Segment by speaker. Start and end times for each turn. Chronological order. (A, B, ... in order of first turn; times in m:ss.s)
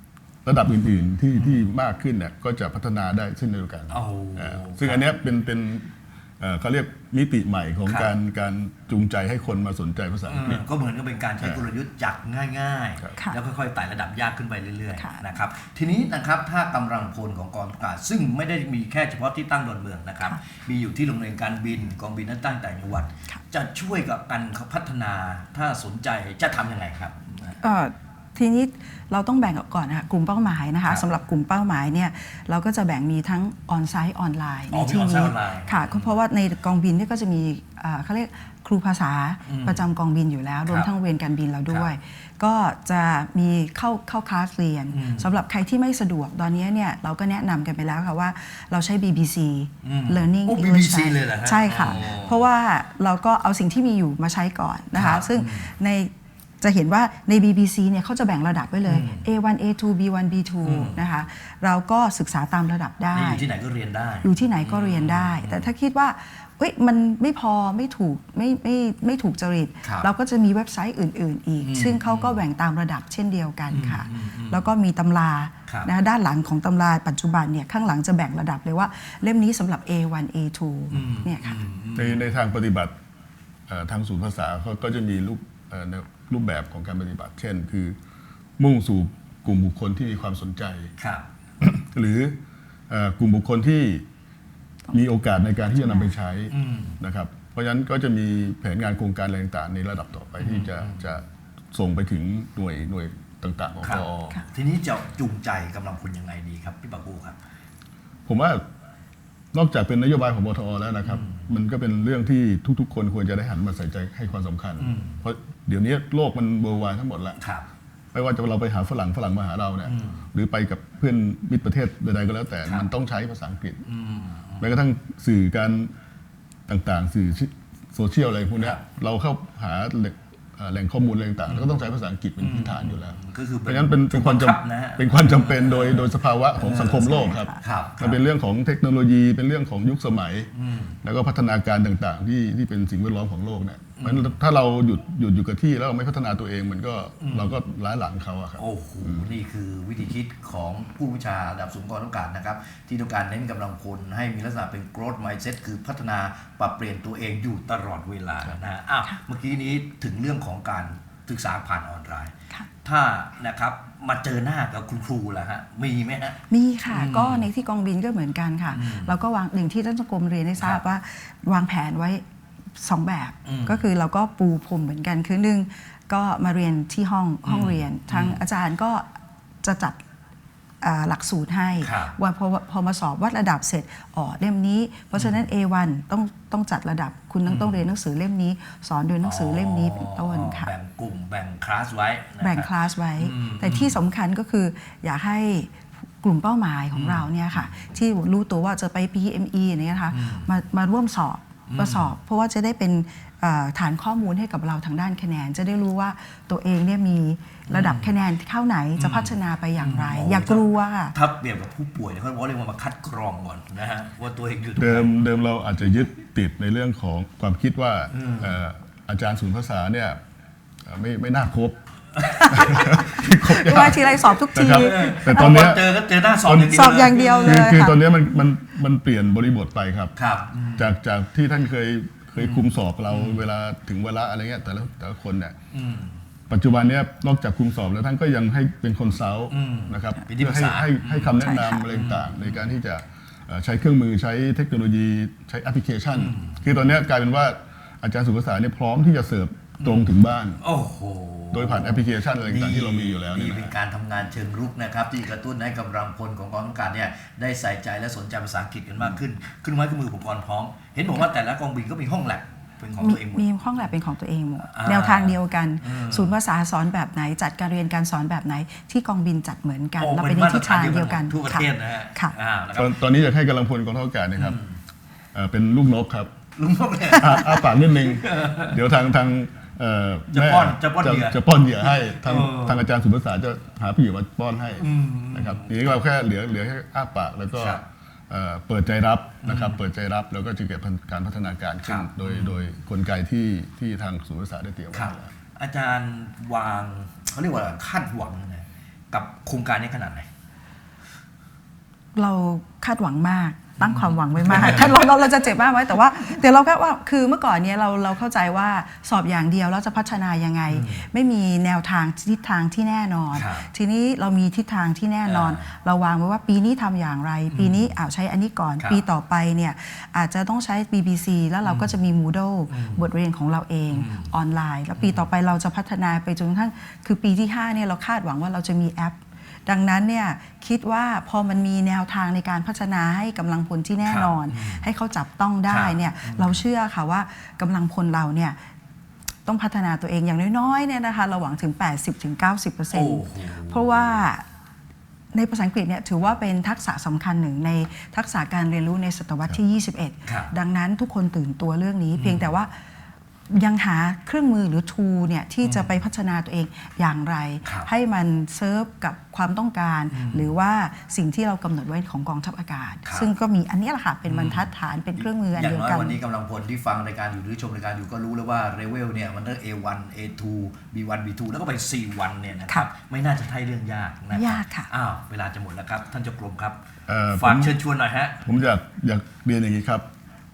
0:00.4-0:10.6 A
0:01.4-0:01.6 B
0:03.9-0:05.1 B
0:07.8-0:08.1 B
0:10.3-0:27.6 B
0:11.4-0:11.6 A
0:15.0-0:15.3 C
0:27.6-1:03.5 C
0:34.7-0:36.2 B
0:39.5-0:39.9 B
0:44.9-0:45.3 B
0:49.8-0:52.5 B
0:54.9-0:55.7 B
0:58.8-0:59.3 B
1:00.6-1:01.0 B
1:03.1-1:05.7 B
1:04.2-1:21.6 C
1:09.8-1:10.1 B
1:11.6-1:12.4 B
1:13.7-1:14.7 B
1:20.9-1:22.3 B
1:22.0-1:22.9 A
1:23.7-1:28.0 A
1:28.6-1:30.9 A
1:31.0-1:31.3 B
1:31.6-1:34.1 A
1:34.9-1:44.4 A
1:35.8-1:36.1 C
1:36.5-1:37.0 B
1:40.4-1:41.2 B
1:43.8-1:47.4 B
1:48.3-1:48.6 A
1:49.5-1:57.4 A
1:51.0-1:51.5 B
1:54.8-1:55.2 B
1:57.4-1:57.7 B
1:58.1-2:03.8 A
1:59.8-2:00.2 B
2:03.9-2:04.7 B
2:04.6-2:05.9 A
2:06.7-2:20.5 A
2:11.5-2:11.8 B
2:12.4-2:18.2 B
2:17.0-2:17.6 C
2:20.6-2:21.0 B
2:21.0-2:29.3 A
2:24.0-2:24.4 B
2:27.2-2:27.6 B
2:28.6-2:42.3 B
2:42.8-2:47.5 B
2:46.5-2:52.2 C
2:48.7-2:49.2 B
2:52.8-2:59.1 C
2:53.4-2:53.8 B
2:57.4-2:58.4 B
2:59.6-3:00.0 C
3:00.8-3:10.7 C
3:01.8-3:02.2 B
3:05.1-3:05.5 B
3:07.4-3:07.9 B
3:09.2-3:14.0 B
3:12.4-3:31.1 C
3:16.9-3:17.8 B
3:20.1-3:20.5 B
3:21.7-3:22.1 B
3:27.7-3:28.1 B
3:29.0-3:35.1 B
3:34.8-3:40.2 A
3:38.1-3:38.6 B
3:40.9-3:41.8 A
3:42.3-3:43.1 B
3:42.4-3:50.2 A
3:43.4-3:45.7 C
3:44.7-3:47.8 B
3:46.6-3:48.0 C
3:50.2-3:51.0 B
3:50.8-3:55.6 A
3:52.4-3:53.4 B
3:55.7-3:56.2 B
3:56.5-4:10.6 A
3:59.5-4:02.7 B
4:01.4-4:01.8 C
4:06.1-4:06.8 B
4:09.8-4:23.5 B
4:11.5-4:13.8 A
4:23.0-4:32.3 C
4:24.7-4:26.4 B
4:30.0-4:33.0 B
4:32.7-4:34.6 A
4:34.4-4:34.8 B
4:35.3-4:36.4 A
4:36.6-4:38.8 B
4:37.1-4:55.3 A
4:40.3-4:42.9 B
4:44.8-4:46.0 B
4:47.5-4:47.8 B
4:49.4-4:49.8 B
4:51.8-4:52.7 B
4:54.9-5:00.3 B
5:02.1-5:38.6 C
5:03.8-5:05.3 B
5:10.7-5:11.1 B
5:13.3-5:13.7 B
5:15.2-5:15.7 B
5:17.5-5:17.9 B
5:21.6-5:22.0 B
5:22.7-5:23.1 B
5:23.9-5:24.3 B
5:25.0-5:25.3 B
5:34.0-5:34.8 B
5:35.7-5:36.6 B
5:39.5-5:44.5 C
5:42.9-5:44.2 B
5:45.3-5:52.7 C
5:50.2-5:50.5 B
5:52.1-5:52.5 B
5:53.5-6:06.2 C
5:55.6-5:56.0 B
5:57.6-5:57.9 B
6:00.1-6:00.5 B
6:04.3-6:16.8 B
6:14.3-6:14.9 C
6:17.1-6:17.8 A
6:17.3-6:18.4 B
6:18.4-6:20.1 A